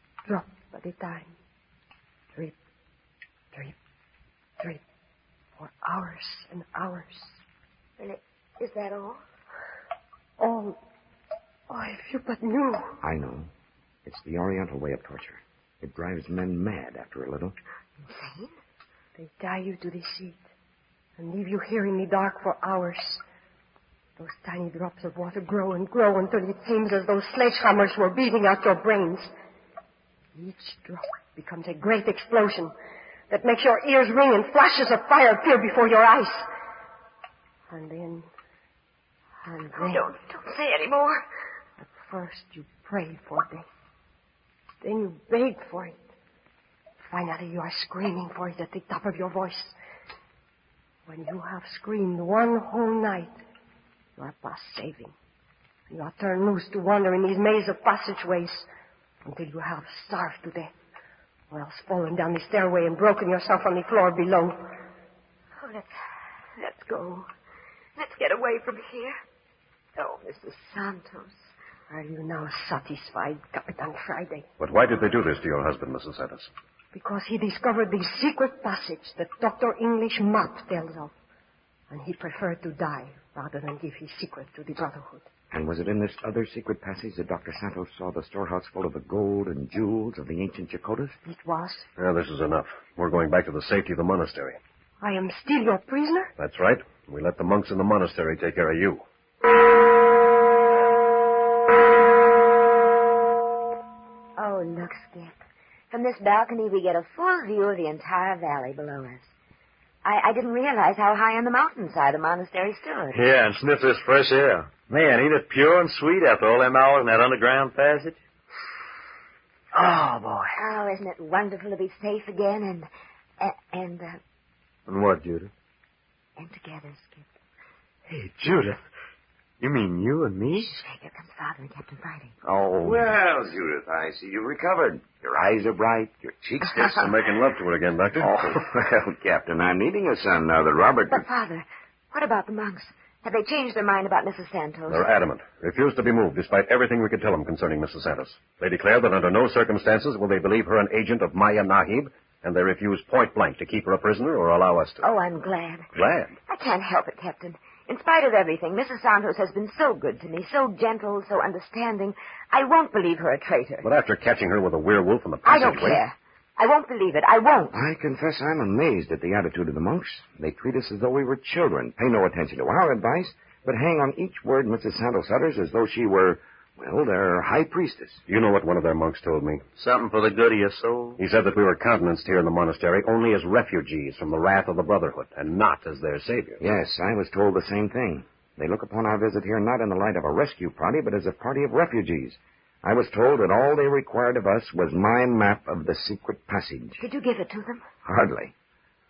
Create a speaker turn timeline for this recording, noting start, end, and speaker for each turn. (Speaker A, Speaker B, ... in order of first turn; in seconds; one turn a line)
Speaker A: 0.2-1.3
Speaker A: 5.6-7.4
Speaker B: 8.0-9.2
Speaker A: 10.4-10.8
Speaker A: 11.7-13.0
Speaker C: 13.0-13.5
Speaker C: 14.0-17.6
Speaker B: 18.0-18.5
Speaker A: 19.2-20.4
Speaker A: 21.2-23.2
Speaker A: 24.2-29.3
Speaker A: 30.3-32.7
Speaker A: 33.3-36.5
Speaker A: 37.7-38.2
Speaker A: 39.4-40.0
Speaker B: 39.7-41.2
Speaker A: 41.8-43.6
Speaker A: 44.8-46.0
Speaker A: 47.1-49.7
Speaker A: 51.1-53.4
Speaker A: 54.2-55.1
Speaker A: 55.9-58.6
Speaker A: 59.2-60.7
Speaker A: 61.5-64.7
Speaker B: 65.6-65.9
Speaker B: 66.6-67.3
Speaker B: 68.0-69.2
Speaker B: 70.0-71.5
Speaker A: 71.9-74.5
Speaker D: 74.6-76.5
Speaker A: 76.9-81.1
Speaker A: 81.9-85.3
Speaker C: 85.5-91.2
Speaker A: 91.2-91.9
Speaker D: 92.0-94.6
Speaker A: 95.0-96.3
Speaker D: 96.4-99.0
Speaker B: 104.4-105.4
Speaker B: 105.9-109.3
Speaker B: 110.0-113.2
Speaker E: 113.1-118.2
Speaker E: 119.7-120.5
Speaker B: 120.5-122.9
Speaker B: 123.4-124.2
Speaker E: 124.9-125.5
Speaker B: 126.4-127.3
Speaker E: 128.1-128.8
Speaker E: 129.6-130.7
Speaker B: 130.6-132.3
Speaker C: 132.4-137.1
Speaker D: 136.6-138.5
Speaker C: 138.2-141.2
Speaker B: 141.1-145.1
Speaker D: 144.9-155.0
Speaker B: 155.0-155.9
Speaker D: 155.9-156.3
Speaker B: 156.5-163.9
Speaker D: 163.8-166.0
Speaker B: 165.4-167.8
Speaker C: 167.7-178.2
Speaker D: 178.3-179.6
Speaker E: 179.8-181.2
Speaker D: 181.2-186.6
Speaker C: 186.6-197.0
Speaker B: 197.0-197.8
Speaker C: 198.0-198.5